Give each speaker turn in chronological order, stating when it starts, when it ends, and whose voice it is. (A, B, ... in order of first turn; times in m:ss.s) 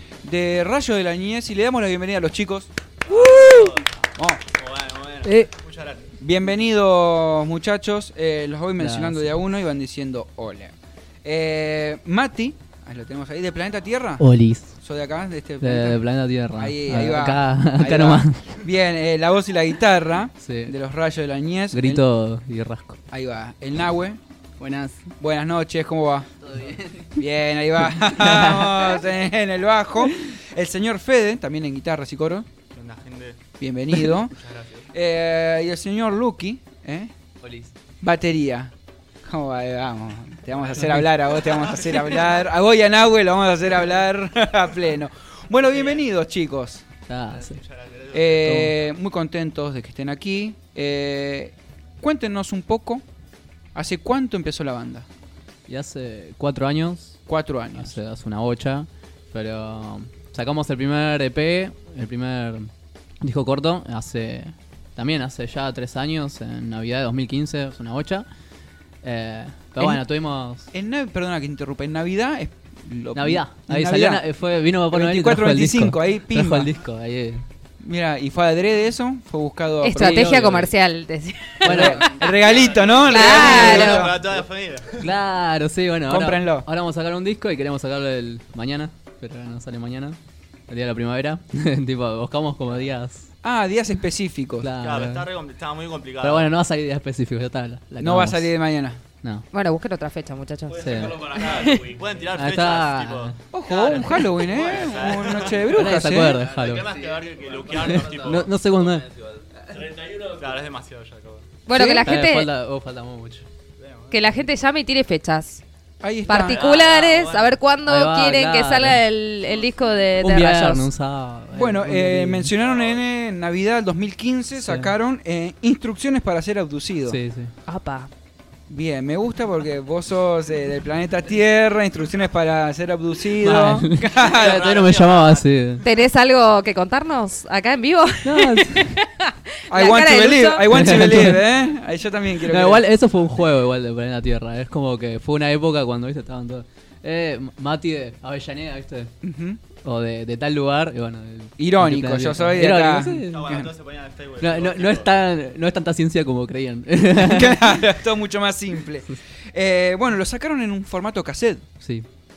0:00.2-0:03.5 A
0:03.0-0:03.9 B
0:04.2-0:04.4 A
0:04.5-0:06.1 B
0:05.2-0:05.5 C
0:06.2-0:14.2 A
0:08.8-0:09.3 C
0:14.2-0:14.8 C
0:14.8-0:16.0 A
0:15.6-0:18.6 C
0:16.5-0:22.0 A
0:20.4-0:20.8 C
0:21.7-0:23.0 C
0:23.1-0:24.2 A
0:24.6-0:25.0 D
0:25.2-0:26.3 A
0:26.4-0:27.2 D
0:27.2-0:32.5 A
0:27.9-0:29.0 C
0:32.7-0:33.4 B
0:33.6-0:34.4 A
0:34.1-0:34.9 B
0:34.9-0:37.1 A
0:37.4-0:37.7 C
0:38.0-0:46.9 A
0:40.6-0:42.3 B
0:40.8-0:41.1 C
0:45.6-0:46.0 B
0:47.1-0:47.6 C
0:47.3-0:48.5 B
0:48.1-0:53.0 A
0:48.4-0:48.7 C
0:53.7-0:55.1 A
0:55.7-0:57.2 C
0:57.3-0:58.0 A
0:57.8-1:08.3 C
1:09.0-1:10.7 C
1:09.8-1:10.0 A
1:10.7-1:14.3 A
1:13.2-1:17.5 C
1:14.9-1:16.7 A
1:17.8-1:20.5 A
1:19.8-1:22.3 E
1:19.9-1:20.7 C
1:21.6-1:22.1 C
1:21.6-1:24.3 A
1:22.5-1:25.1 B
1:23.0-1:24.1 E
1:23.5-1:23.9 C
1:25.0-1:30.2 C
1:26.1-1:26.7 A
1:30.7-1:33.3 C
1:33.4-1:34.7 A
1:34.6-1:35.3 C
1:34.8-1:36.5 B
1:36.2-1:38.5 C
1:38.0-1:39.0 A
1:39.5-1:41.9 E
1:40.7-1:41.4 C
1:40.8-1:42.0 D
1:41.3-1:48.5 B
1:42.3-1:43.4 C
1:43.5-1:46.4 A
1:43.7-1:45.7 D
1:45.7-1:46.9 C
1:46.3-1:50.4 D
1:47.9-1:49.1 C
1:50.1-1:51.5 B
1:51.7-1:52.5 E
1:51.7-1:52.1 A
1:51.8-1:53.5 C
1:53.8-1:54.4 B
1:54.1-1:55.6 E
1:56.0-1:56.7 A
1:56.3-2:00.9 E
1:56.3-1:57.6 B
1:57.8-1:59.0 C
2:00.2-2:02.5 C
2:01.5-2:07.2 A
2:02.6-2:03.0 B
2:04.6-2:04.9 C
2:07.1-2:07.5 C
2:07.7-2:08.1 E
2:08.7-2:14.8 A
2:13.4-2:15.8 C
2:14.2-2:15.5 B
2:15.8-2:21.0 E
2:18.2-2:19.0 C
2:19.7-2:22.8 A
2:20.7-2:21.4 C
2:22.5-2:29.1 C
2:29.2-2:29.6 A
2:29.8-2:33.5 C
2:31.6-2:33.7 A
2:33.3-2:35.1 B
2:34.4-2:37.7 C
2:37.2-2:41.7 A
2:41.8-2:42.1 C